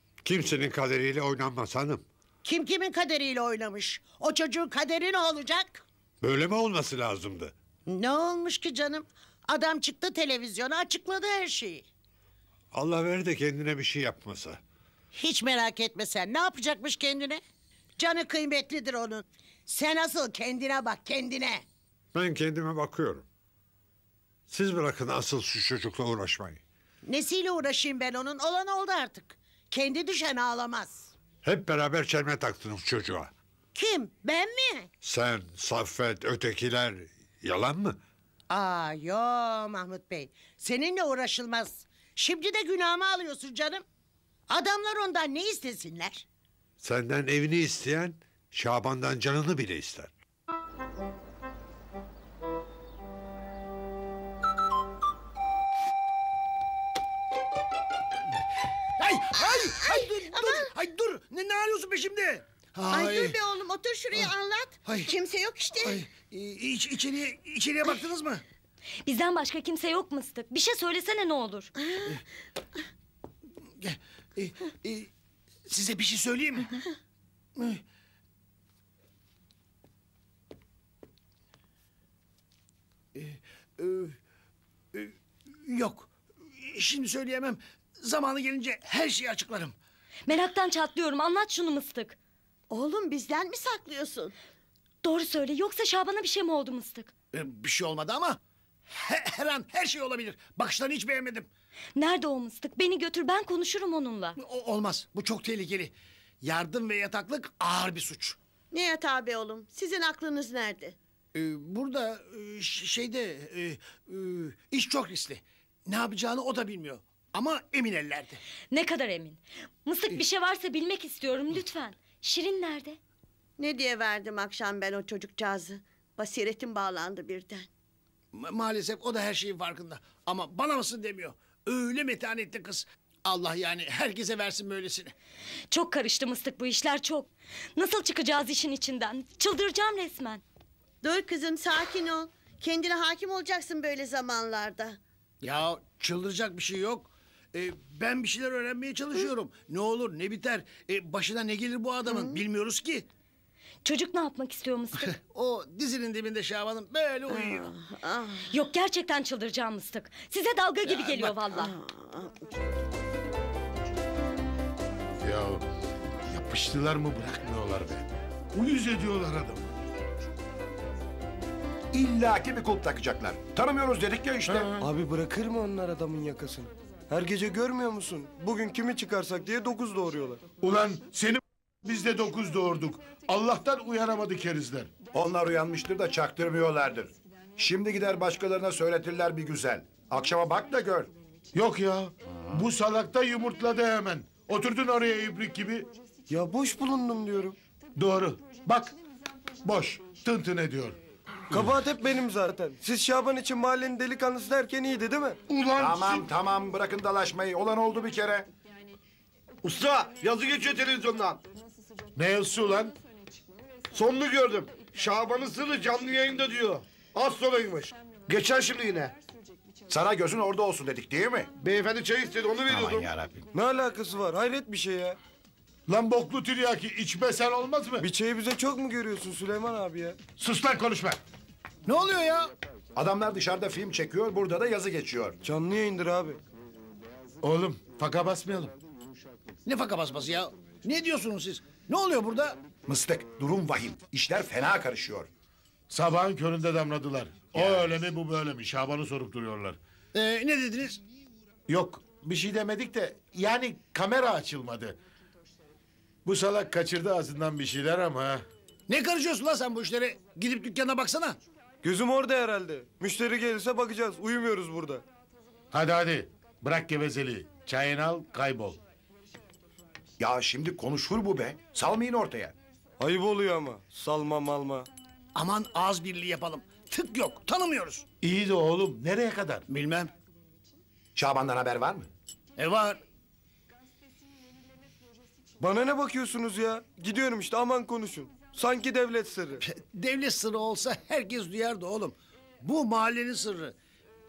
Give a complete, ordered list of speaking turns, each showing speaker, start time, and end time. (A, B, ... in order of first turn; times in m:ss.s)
0:00.2-0:02.0 A
0:02.4-0:05.8 B
0:06.2-0:07.5 A
0:07.9-0:11.9 B
0:12.7-0:14.6 A
0:15.1-0:17.4 B
0:18.0-0:21.6 B
0:22.1-0:23.2 A
0:24.5-0:26.6 A
0:27.0-0:31.1 B
0:31.4-0:33.3 A
0:33.8-0:34.9 B
0:35.0-0:38.0 A
0:38.5-0:43.8 B
0:44.5-0:46.2 B
0:46.8-0:50.1 A
0:59.0-1:03.3 C
1:02.9-1:06.0 D
1:04.8-1:05.1 C
1:05.8-1:08.4 C
1:09.0-1:11.7 E
1:13.8-1:15.1 C
1:15.7-1:16.8 C
1:17.6-1:17.8 C
1:23.1-1:24.2 C
1:24.9-1:29.8 C
1:30.3-1:32.2 E
1:32.7-1:34.3 D
1:35.0-1:37.1 E
1:37.3-1:41.5 C
1:42.0-1:44.4 E
1:44.4-1:48.4 C
1:48.7-1:51.0 D
1:51.3-1:58.4 C
1:58.7-2:03.0 E
2:03.6-2:07.7 D
2:08.3-2:15.1 C
2:15.7-2:20.4 E
2:21.0-2:25.0 D
2:25.4-2:33.1 C
2:32.1-2:32.4 D
2:33.8-2:35.1 E
2:35.1-2:37.7 C
2:37.3-2:38.4 D
2:38.5-2:41.7 E
2:40.9-2:41.4 C
2:41.5-2:42.5 D
2:45.2-2:45.6 F
2:46.3-2:49.6 F
2:51.9-2:54.8 G
2:54.5-2:54.7 F
2:54.8-3:00.4 H
3:00.6-3:04.9 F
3:05.1-3:11.1 G
3:11.5-3:15.9 F
3:16.3-3:17.6 H
3:18.0-3:19.0 F
3:19.6-3:21.0 F
3:21.5-3:25.4 H
3:25.5-3:26.2 F
3:25.8-3:28.5 G
3:29.7-3:31.4 I
3:32.2-3:32.9 F
3:34.0-3:37.9 I
3:34.8-3:35.2 F
3:38.6-3:39.1 I
3:39.9-3:41.5 G
3:41.6-3:42.8 I
3:42.7-3:43.4 G
3:43.5-3:45.2 H
3:45.9-3:48.0 F
3:48.0-3:50.2 H
3:50.4-3:51.2 F
3:51.8-3:52.5 C
3:53.0-3:55.4 G
3:55.4-3:56.4 H
3:57.4-3:58.7 F
3:59.7-4:02.6 C
4:02.9-4:05.3 G
4:05.9-4:09.8 F
4:07.6-4:07.9 G
4:10.1-4:11.0 C
4:11.7-4:15.0 F
4:16.2-4:18.4 F
4:18.9-4:21.4 C
4:21.8-4:25.0 H
4:25.7-4:28.8 F
4:30.2-4:32.6 G
4:33.0-4:34.9 H
4:35.4-4:38.1 C
4:38.2-4:39.6 F
4:39.7-4:40.1 C
4:41.2-4:42.1 G
4:42.6-4:43.0 C
4:45.6-4:49.6 H
4:49.6-4:53.8 C